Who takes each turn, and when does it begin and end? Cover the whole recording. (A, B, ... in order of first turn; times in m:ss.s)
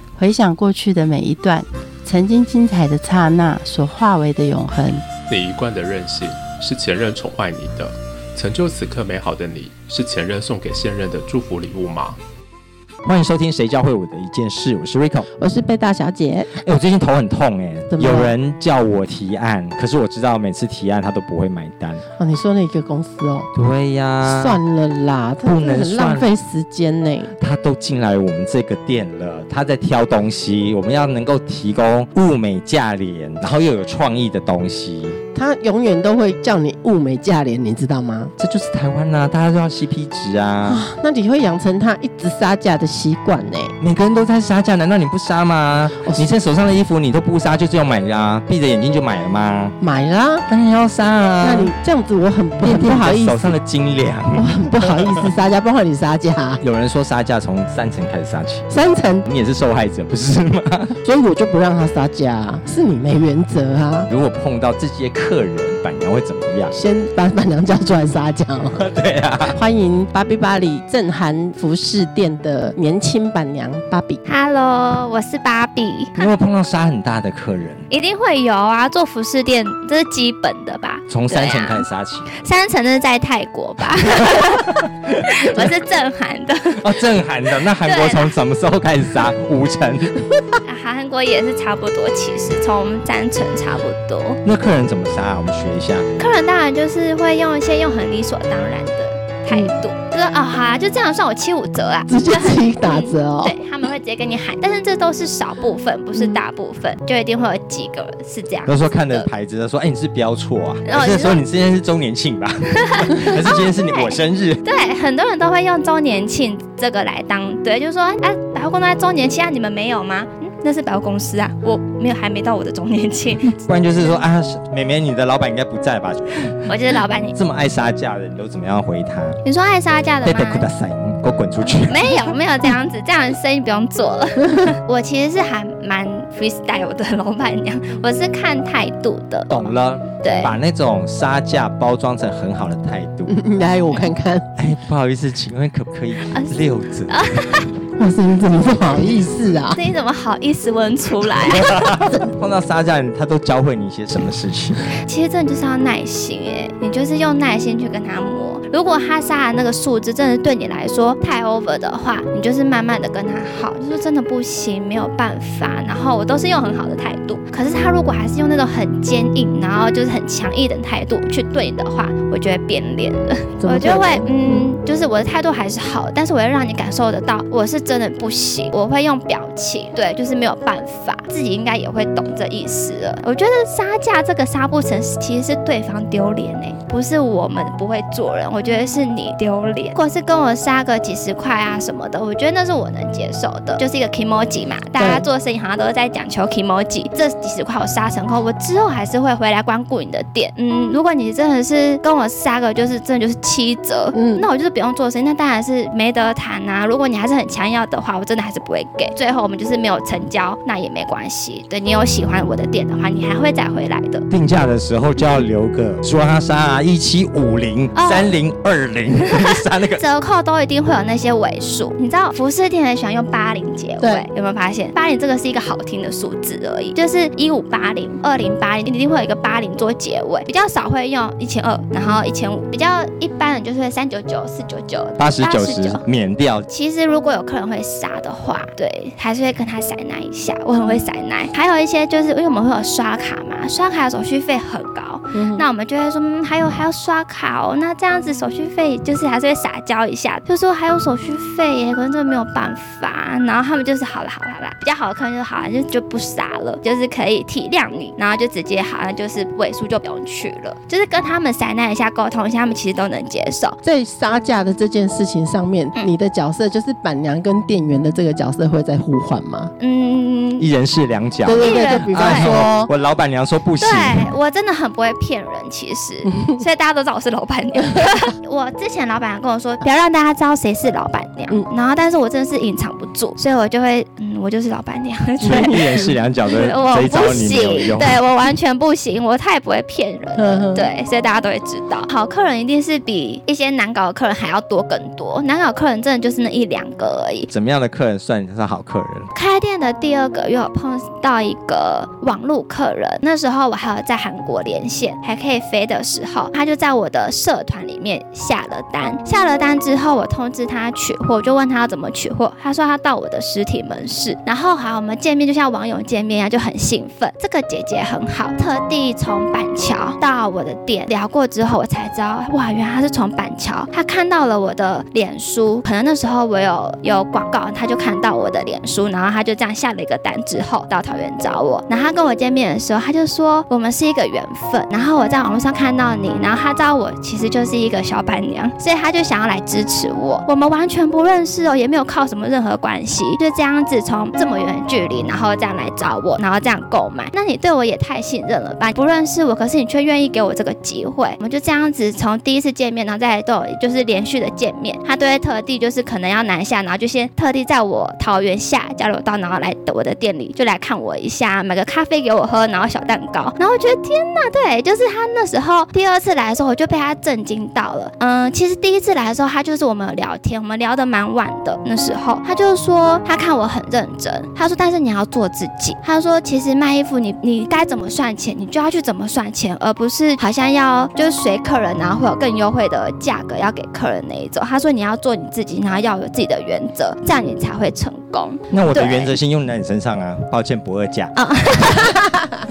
0:00.2-0:05.0 A
0:05.3-0:12.2 B
0:13.0-0:15.3 C
0:15.4-0:16.6 D
0:16.6-0:22.0 C
0:17.9-0:18.3 D
0:22.2-0:23.5 D
0:23.5-0:24.6 C
0:24.2-0:27.3 D
0:25.4-0:26.3 C
0:27.4-0:35.2 C
0:35.3-0:38.3 D
0:38.4-0:40.8 C
0:40.6-0:43.7 D
0:43.8-0:49.7 C
0:49.8-0:50.5 D
0:50.5-0:51.7 C
0:51.4-0:53.6 D
0:52.6-0:55.3 C
0:54.3-0:56.6 D
0:56.6-0:58.7 C
0:58.7-0:59.3 D
0:59.2-1:01.0 C
1:01.0-1:04.1 D
1:04.1-1:06.7 C
1:06.7-1:08.8 D
1:08.8-1:09.6 C
1:09.5-1:14.2 D
1:14.2-1:16.3 E
1:16.2-1:17.8 C
1:17.9-1:21.8 E
1:21.1-1:22.3 C
1:22.4-1:26.8 E
1:26.8-1:30.3 C
1:27.8-1:28.2 E
1:30.6-1:34.4 E
1:34.4-1:36.1 C
1:36.2-1:49.3 E
1:42.1-1:43.5 D
1:48.7-1:54.6 C
1:50.8-1:51.4 E
1:52.8-2:03.6 E
2:03.6-2:06.6 C
2:06.6-2:07.4 E
2:07.3-2:09.4 C
2:09.4-2:10.6 E
2:10.2-2:12.2 C
2:11.6-2:20.5 E
2:19.5-2:23.4 C
2:23.3-2:24.5 D
2:24.6-2:27.2 C
2:26.3-2:27.7 E
2:28.0-2:29.8 D
2:29.7-2:31.8 E
2:31.4-2:34.8 C
2:35.0-3:34.2 E
2:53.6-2:54.6 D
3:15.0-3:15.2 D
3:24.1-3:24.4 D
3:34.3-3:40.0 C
3:37.9-3:38.3 E
3:39.4-3:56.0 E
3:44.0-3:44.3 D
3:55.2-3:56.7 C
3:56.7-4:23.8 E
4:05.3-4:05.6 D
4:23.8-4:29.7 D
4:29.8-4:30.6 E
4:30.6-4:34.3 C
4:31.4-4:32.9 D
4:31.6-4:32.6 E
4:33.8-4:57.5 E
4:45.4-4:48.2 C
4:45.5-4:45.9 D
4:50.4-4:50.9 D
4:57.5-4:59.3 C
4:59.3-6:29.3 E
6:28.7-6:31.3 C
6:31.4-6:32.2 E